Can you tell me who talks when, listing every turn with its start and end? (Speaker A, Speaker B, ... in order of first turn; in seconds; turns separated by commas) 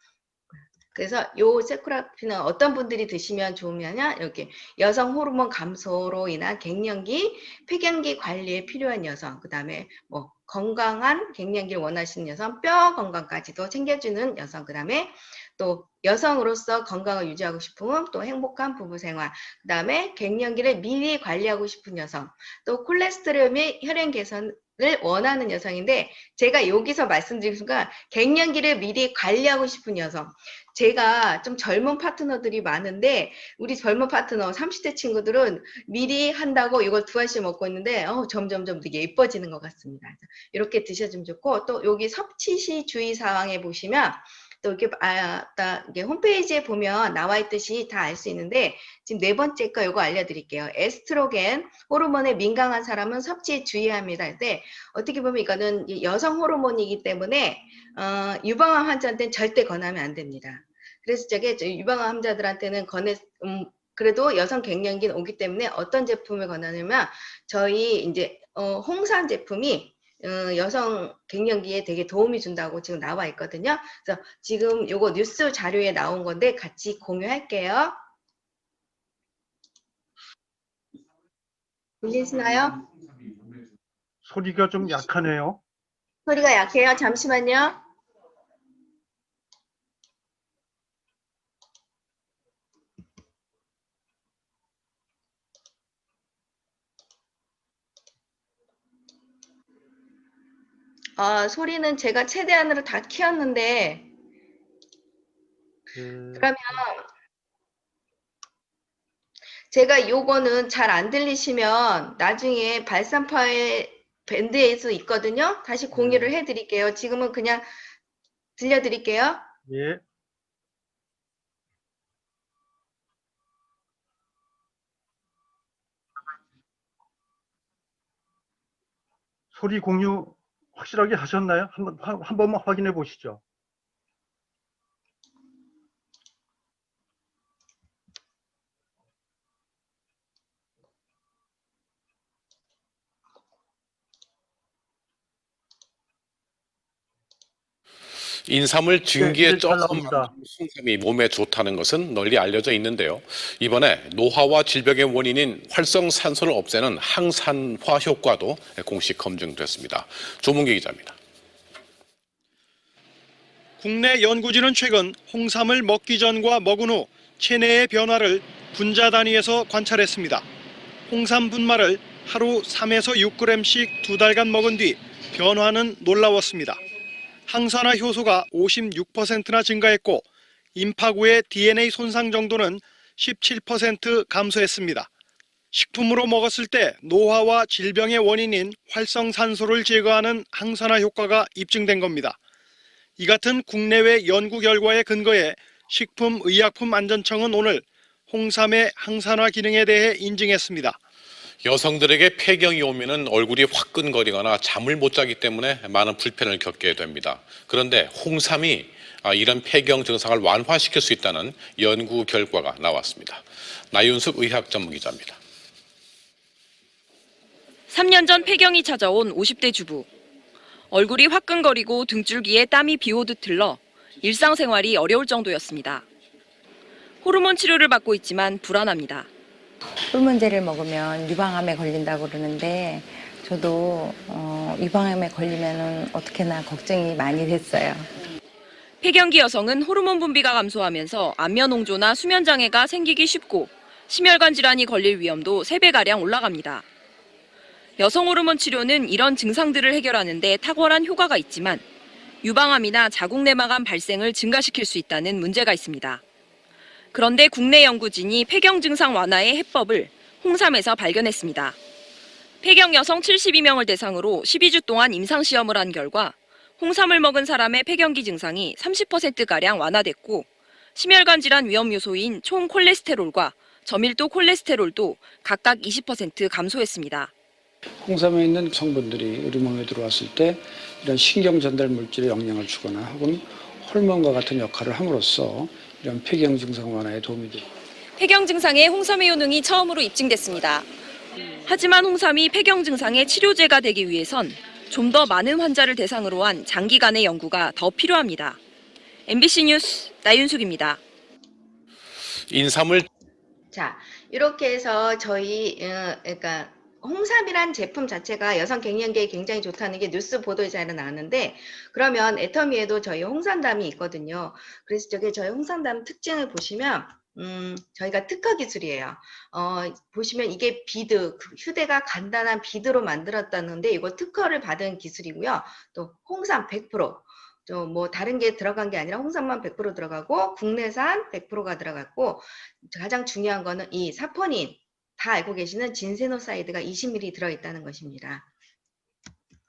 Speaker A: 0.9-78.0, Speaker A: 82.0-82.8, Speaker B: 84.2-85.6, Speaker A: 86.2-87.8, Speaker A: 101.2-104.1, Speaker B: 105.9-106.5, Speaker A: 106.3-107.1, Speaker A: 109.7-117.7, Speaker B: 115.9-116.3, Speaker A: 118.6-119.5, Speaker B: 119.7-120.0, Speaker B: 129.5-133.4, Speaker C: 148.5-161.2, Speaker B: 149.1-150.3, Speaker D: 163.8-170.4, Speaker D: 171.1-176.8, Speaker D: 177.5-185.1, Speaker D: 185.7-192.4, Speaker D: 193.2-201.0, Speaker C: 201.6-215.4, Speaker E: 217.9-220.1, Speaker E: 220.9-226.0, Speaker E: 227.2-229.3, Speaker F: 230.1-238.1, Speaker E: 239.0-246.8, Speaker E: 248.0-251.9, Speaker E: 252.4-256.2, Speaker E: 257.1-261.8, Speaker E: 262.6-277.3, Speaker G: 278.0-287.7, Speaker E: 288.2-290.9, Speaker E: 291.6-298.6, Speaker E: 299.3-301.0, Speaker C: 302.5-303.1, Speaker A: 303.7-338.5